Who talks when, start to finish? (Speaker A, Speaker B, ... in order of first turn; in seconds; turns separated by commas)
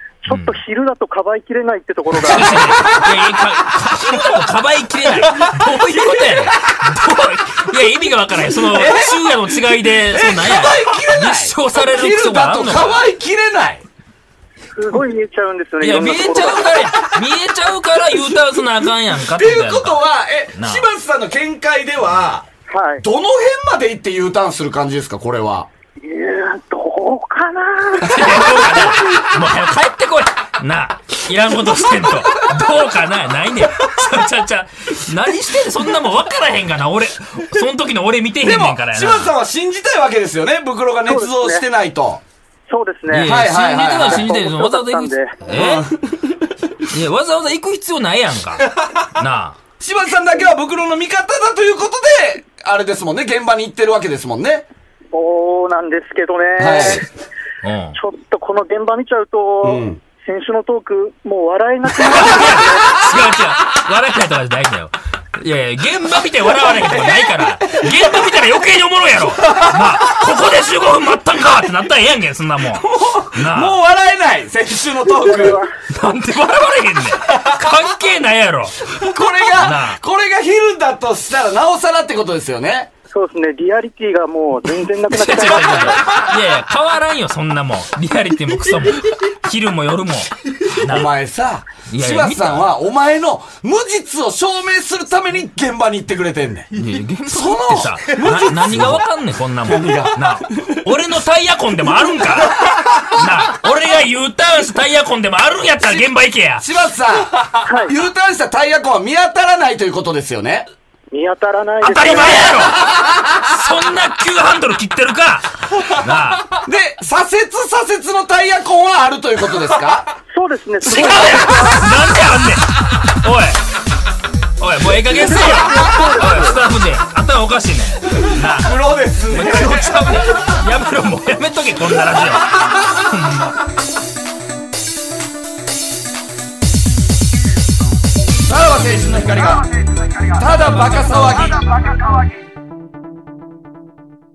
Speaker A: 0.2-3.0, Speaker B: 0.3-0.6, Speaker B: 2.1-13.0, Speaker C: 2.5-2.9, Speaker C: 6.0-6.5, Speaker C: 8.7-9.3, Speaker C: 10.1-13.8, Speaker A: 14.7-16.9, Speaker B: 15.8-20.0, Speaker C: 19.3-22.4, Speaker B: 20.5-20.9, Speaker A: 22.7-23.0, Speaker C: 23.0-25.7, Speaker A: 26.0-28.8, Speaker B: 28.0-39.3, Speaker C: 31.9-32.6, Speaker C: 38.4-42.2, Speaker A: 41.1-41.6, Speaker A: 42.7-43.4, Speaker B: 43.1-45.9, Speaker C: 43.2-44.3, Speaker A: 44.0-45.3, Speaker C: 45.5-46.5, Speaker B: 46.9-49.6, Speaker C: 49.8-54.6, Speaker A: 55.1-57.1, Speaker C: 56.6-57.1, Speaker B: 57.6-58.0, Speaker A: 57.9-63.0, Speaker C: 59.6-60.0, Speaker B: 62.0-73.8, Speaker C: 66.6-68.1, Speaker C: 69.5-70.0, Speaker C: 72.7-75.6, Speaker A: 75.3-75.7, Speaker B: 75.9-78.8, Speaker C: 78.9-82.9, Speaker B: 79.5-80.0, Speaker A: 83.1-86.1, Speaker B: 85.1-91.1, Speaker C: 85.6-86.5, Speaker C: 90.8-96.7, Speaker B: 91.9-92.7, Speaker B: 96.7-106.7, Speaker C: 97.2-99.0, Speaker C: 99.6-100.9, Speaker C: 102.4-103.2, Speaker C: 106.6-110.6, Speaker A: 107.7-107.9, Speaker A: 111.1-112.7, Speaker B: 111.8-116.6, Speaker C: 112.0-113.6, Speaker C: 116.6-120.1, Speaker A: 120.3-122.0, Speaker B: 120.8-123.6, Speaker C: 121.1-121.6, Speaker B: 124.6-128.8, Speaker A: 125.2-126.6, Speaker C: 125.2-125.8, Speaker C: 128.1-130.6, Speaker B: 129.3-133.6, Speaker C: 132.1-133.1, Speaker C: 138.4-139.7, Speaker A: 140.0-140.4, Speaker C: 140.3-141.9